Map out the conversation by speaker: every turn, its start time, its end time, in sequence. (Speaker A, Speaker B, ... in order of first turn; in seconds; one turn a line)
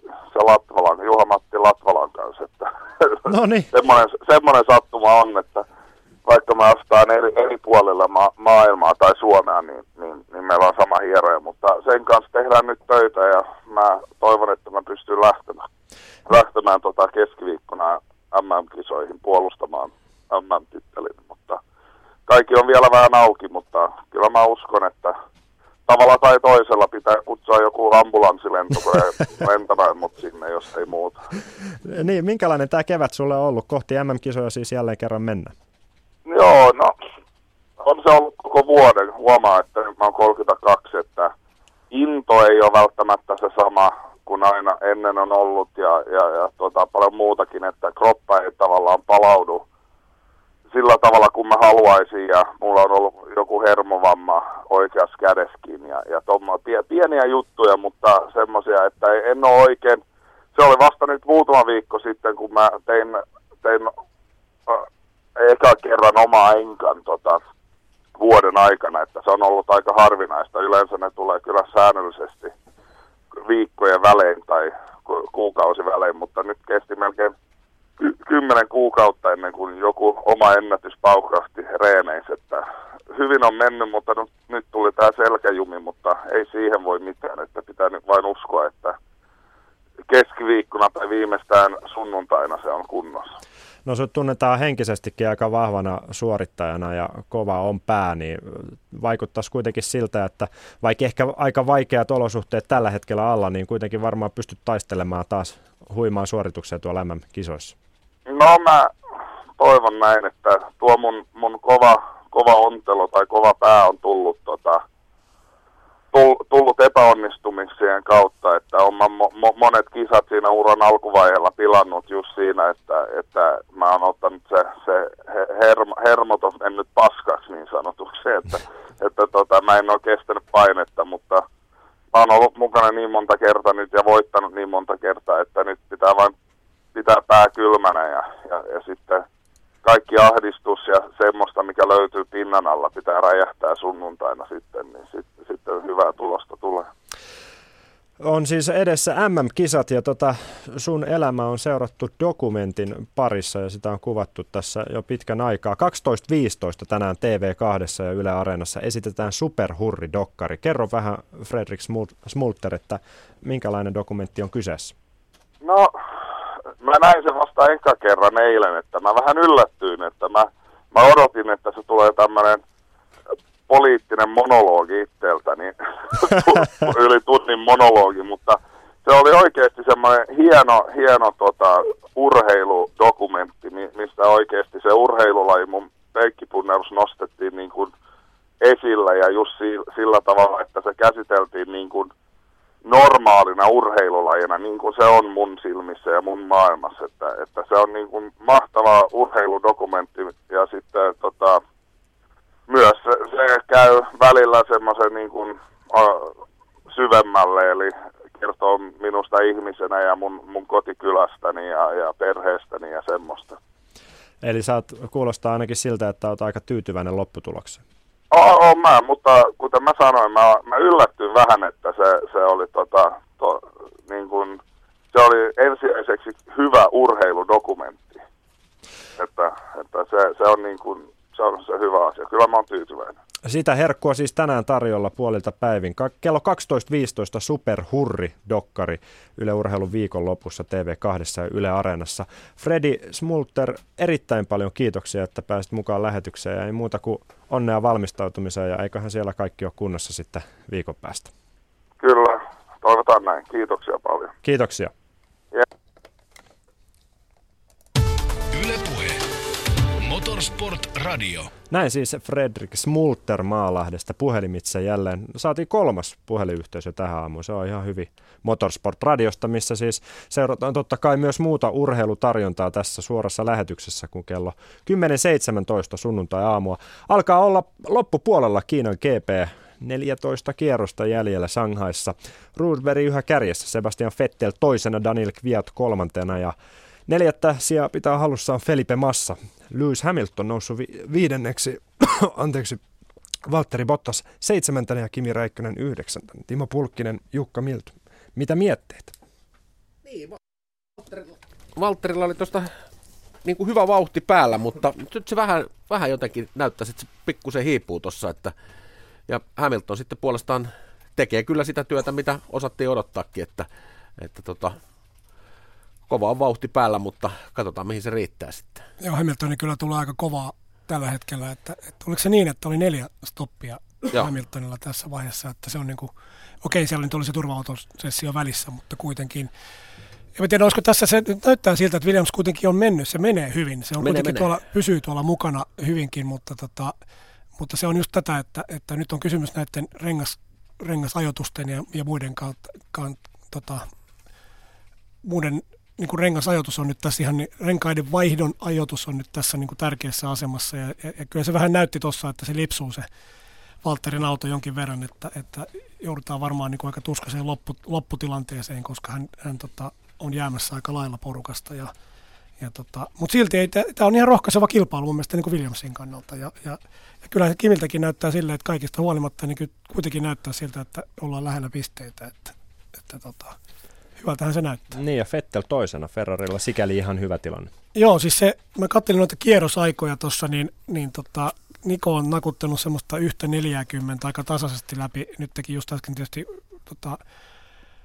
Speaker A: 0.3-3.2
Speaker B: 3.3-3.7
Speaker A: 3.7-5.6
Speaker A: 6.3-15.7
Speaker A: 16.3-21.6
Speaker A: 22.3-25.1
Speaker A: 25.9-31.2
Speaker B: 31.8-35.5
Speaker A: 36.3-37.0
Speaker A: 37.8-41.3
Speaker A: 41.9-49.6
Speaker A: 50.7-60.0
Speaker A: 60.5-63.9
Speaker A: 64.7-67.4
Speaker A: 68.2-72.5
Speaker A: 73.4-77.3
Speaker A: 78.0-89.0
Speaker A: 90.1-93.3
Speaker B: 93.8-107.8
Speaker A: 108.3-108.9
Speaker A: 109.6-114.8
Speaker A: 116.1-131.4
Speaker A: 132.1-136.3
Speaker A: 136.9-139.2
Speaker A: 139.8-146.9
Speaker B: 148.2-164.9
Speaker A: 165.6-165.9
Speaker A: 166.8-172.6
Speaker A: 173.7-187.9
Speaker A: 188.6-192.1
Speaker A: 192.8-201.6
Speaker A: 202.7-206.4
Speaker A: 206.9-213.6
Speaker B: 214.4-217.8
Speaker A: 218.3-224.6
Speaker A: 225.1-228.2
Speaker A: 229.2-233.2
Speaker B: 233.4-251.3
Speaker A: 252.0-254.3
Speaker B: 254.4-254.9
Speaker C: 258.5-259.3
Speaker C: 260.0-261.5
Speaker B: 261.7-286.6
Speaker B: 287.1-292.8
Speaker B: 293.4-299.1
Speaker D: 301.8-302.7
Speaker D: 303.4-308.5
Speaker D: 309.3-314.8
Speaker D: 316.1-318.8
Speaker E: 319.0-329.5
Speaker E: 330.4-336.9
Speaker D: 334.0-334.5
Speaker E: 337.6-343.9
Speaker E: 345.2-353.1
Speaker E: 353.8-361.9
Speaker E: 362.6-373.6
Speaker E: 374.2-375.0
Speaker B: 374.9-377.7
Speaker E: 377.9-387.2